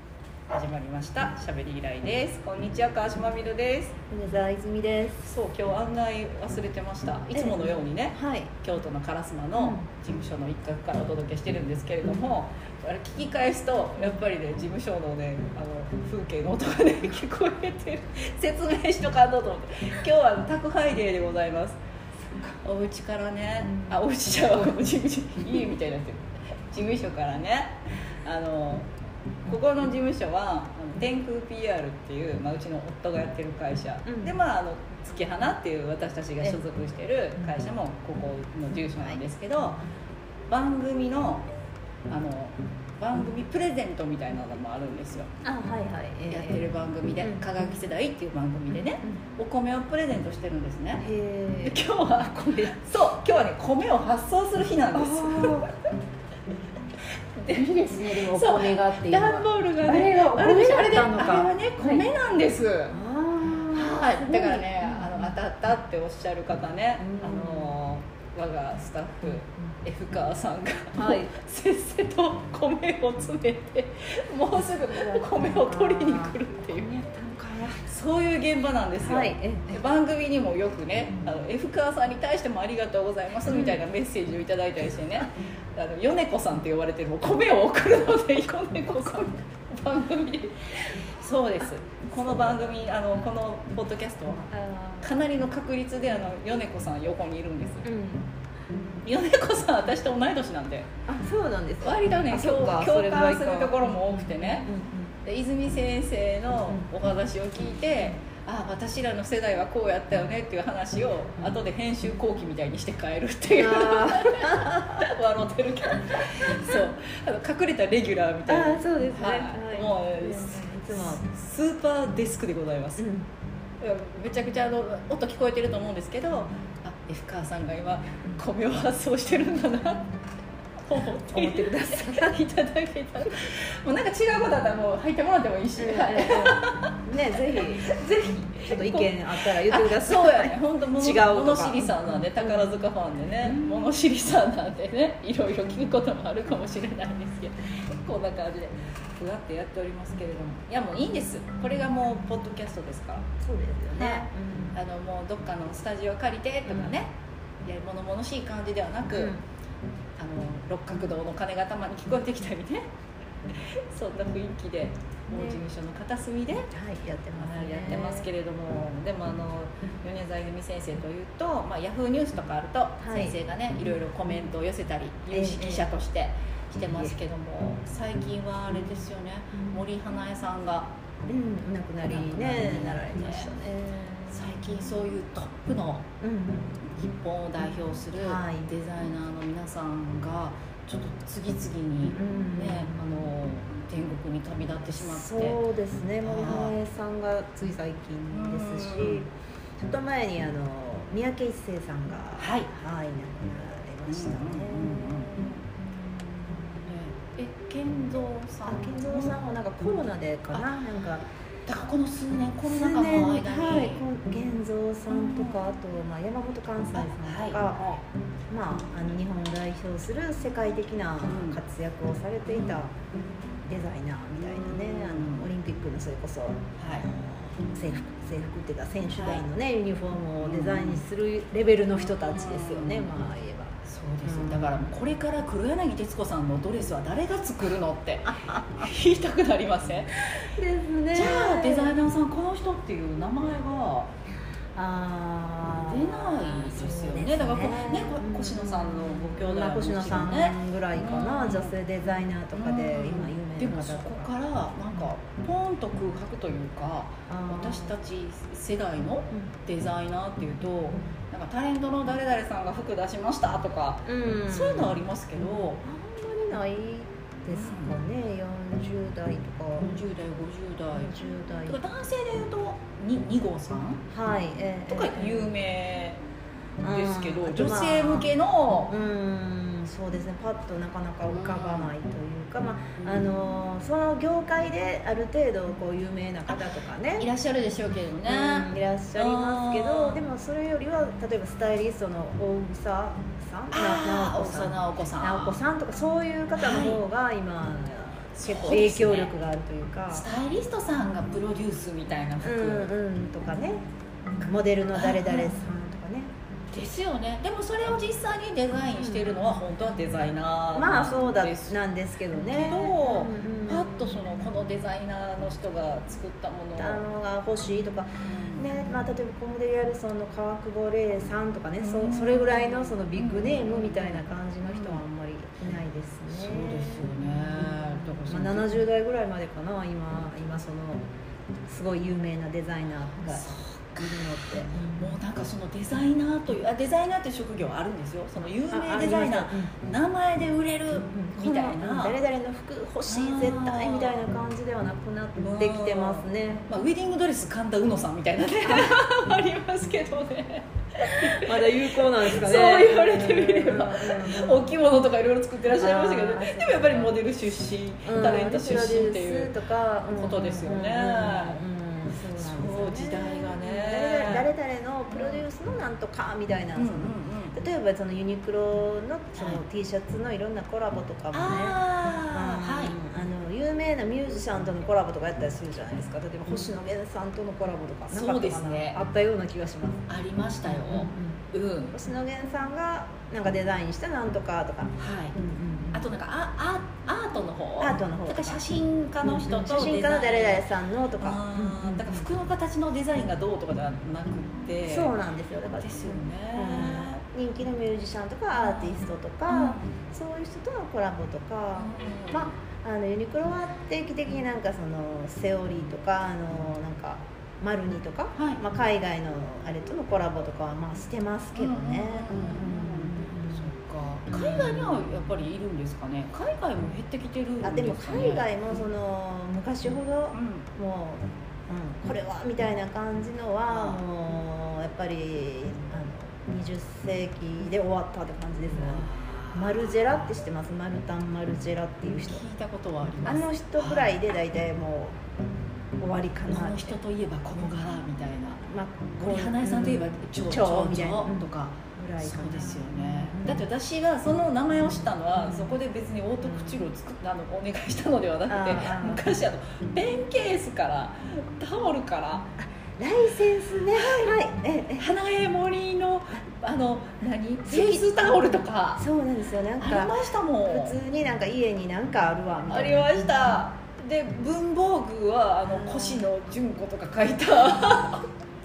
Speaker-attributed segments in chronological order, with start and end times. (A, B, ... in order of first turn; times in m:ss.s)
0:00.5-0:04.0 A
0:04.1-0:05.2 B
0:05.2-0:21.8 A
0:07.3-0:08.5 B
0:09.5-0:09.8 B
0:22.6-0:28.9 A
0:23.7-0:24.7 B
0:29.4-0:39.8 A
0:34.0-0:34.4 B
0:40.5-0:41.5 A
0:42.1-0:45.3 A
0:45.4-0:46.6 B
0:46.3-0:51.0 A
0:47.2-0:47.4 B
0:51.0-0:52.8 B
0:51.6-0:55.7 A
0:54.9-0:55.7 B
0:57.4-1:03.0 A
0:57.5-1:02.1 B
1:02.9-1:05.3 B
1:03.7-1:16.9 A
1:07.0-1:07.8 B
1:11.0-1:11.3 B
1:14.8-1:17.8 B
1:17.8-1:37.9 A
1:19.0-1:19.7 B
1:23.5-1:23.8 B
1:34.5-1:35.1 B
1:37.8-1:38.3 B
1:39.0-1:40.9 A
1:41.1-1:45.1 B
1:41.8-1:44.7 A
1:45.2-2:03.0 A
1:53.5-1:55.0 B
1:58.5-2:01.2 B
2:03.0-2:03.3 B
2:03.8-2:10.1 A
2:10.8-2:17.0 A
2:11.3-2:12.4 B
2:15.8-2:17.9 B
2:17.8-2:33.3 A
2:18.6-2:22.8 B
2:23.4-2:23.8 B
2:33.4-2:34.8 B
2:33.9-2:37.1 A
2:36.6-2:37.0 B
2:37.6-2:39.3 A
2:39.1-2:39.4 B
2:40.2-2:42.8 A
2:43.6-2:46.7 A
2:45.3-2:45.6 B
2:46.7-2:48.3 B
2:47.4-3:00.9 A
2:53.0-2:53.4 B
2:55.3-2:55.9 B
2:56.8-2:57.1 B
3:01.3-3:04.6 B
3:02.1-3:03.5 A
3:04.3-3:06.1 A
3:06.2-3:06.8 B
3:06.8-3:15.6 A
3:08.2-3:08.7 B
3:12.1-3:13.0 B
3:15.0-3:25.5 B
3:16.2-3:16.8 A
3:18.3-3:19.3 A
3:22.4-3:22.7 A
3:24.1-3:25.6 A
3:26.2-3:26.7 B
3:26.8-3:29.9 A
3:28.6-3:31.2 B
3:30.5-3:30.8 A
3:31.6-3:34.0 A
3:32.6-3:38.0 B
3:35.1-3:35.6 A
3:36.9-3:38.0 A
3:38.5-3:42.9 B
3:41.2-3:41.6 A
3:42.5-3:42.8 A
3:43.6-3:54.9 B
3:44.4-3:45.5 A
3:46.8-3:47.1 A
3:49.2-3:49.4 A
3:50.4-3:51.0 A
3:52.0-3:53.2 A
3:53.8-4:00.4 A
3:58.2-3:58.8 B
4:00.4-4:02.0 B
4:01.1-4:04.1 A
4:04.7-4:14.3 B
4:05.8-4:11.7 A
4:12.5-4:25.8 A
4:17.3-4:17.9 B
4:24.0-4:25.0 B
4:25.6-4:29.9 B
4:27.5-4:27.9 A
4:29.8-4:34.0 A
4:30.9-4:31.8 B
4:34.1-4:35.5 B
4:34.9-4:36.2 A
4:36.8-4:38.3 B
4:36.8-4:38.9 A
4:38.8-4:47.3 B
4:41.3-4:41.9 A
4:46.5-4:50.2 A
4:48.3-5:00.3 B
4:53.7-4:55.6 A
4:56.6-4:57.0 A
4:58.4-4:59.3 A
5:00.1-5:02.9 A
5:02.4-5:03.8 B
5:04.4-5:06.3 B
5:04.9-5:05.5 A
5:06.7-5:11.8 A
5:09.0-5:09.4 B
5:10.7-5:14.3 B
5:12.4-5:17.0 A
5:16.8-5:31.1 B
5:18.2-5:18.6 A
5:21.8-5:25.0 A
5:26.3-5:28.8 A
5:31.7-5:35.2 B
5:33.2-5:34.2 A
5:34.7-5:42.2 A
5:38.7-5:39.7 B
5:41.1-5:46.7 B
5:43.1-5:44.2 A
5:45.4-5:59.5 A
5:48.7-5:48.9 B
5:51.2-5:54.7 B
5:55.8-5:57.2 B
5:58.0-6:20.0 B
6:00.1-6:01.6 A
6:02.2-6:04.5 A
6:05.1-6:05.4 A
6:06.8-6:07.6 A
6:09.3-6:09.6 A
6:11.3-6:13.0 A
6:18.1-6:19.0 A
6:20.1-6:21.9 A
6:20.6-6:21.4 B
6:21.9-6:26.1 B
6:25.0-6:25.4 A
6:25.9-6:30.7 A
6:27.8-6:28.6 B
6:29.2-6:32.2 B
6:31.2-6:35.1 A
6:34.8-6:53.7 B
6:35.7-6:37.2 A
6:38.6-6:39.9 A
6:41.8-6:42.5 A
6:48.3-6:48.6 A
6:51.5-6:58.5 A
6:54.3-6:55.0 B
6:57.6-7:12.4 B
7:00.3-7:00.7 A
7:03.7-7:04.0 A
7:08.7-7:10.0 A
7:12.2-7:14.2 A
7:13.2-7:15.2 B
7:16.0-7:17.0 B
7:16.5-7:18.6 A
7:18.6-7:23.6 B
7:19.2-7:32.5 A
7:25.4-7:25.7 B
7:26.4-7:26.8 B
7:28.5-7:29.2 B
7:32.6-7:35.1 B
7:33.9-7:34.4 A
7:35.0-7:39.0 A
7:37.6-7:38.4 B
7:39.0-7:43.4 B
7:39.8-7:41.0 A
7:42.7-7:48.3 A
7:45.7-7:46.3 B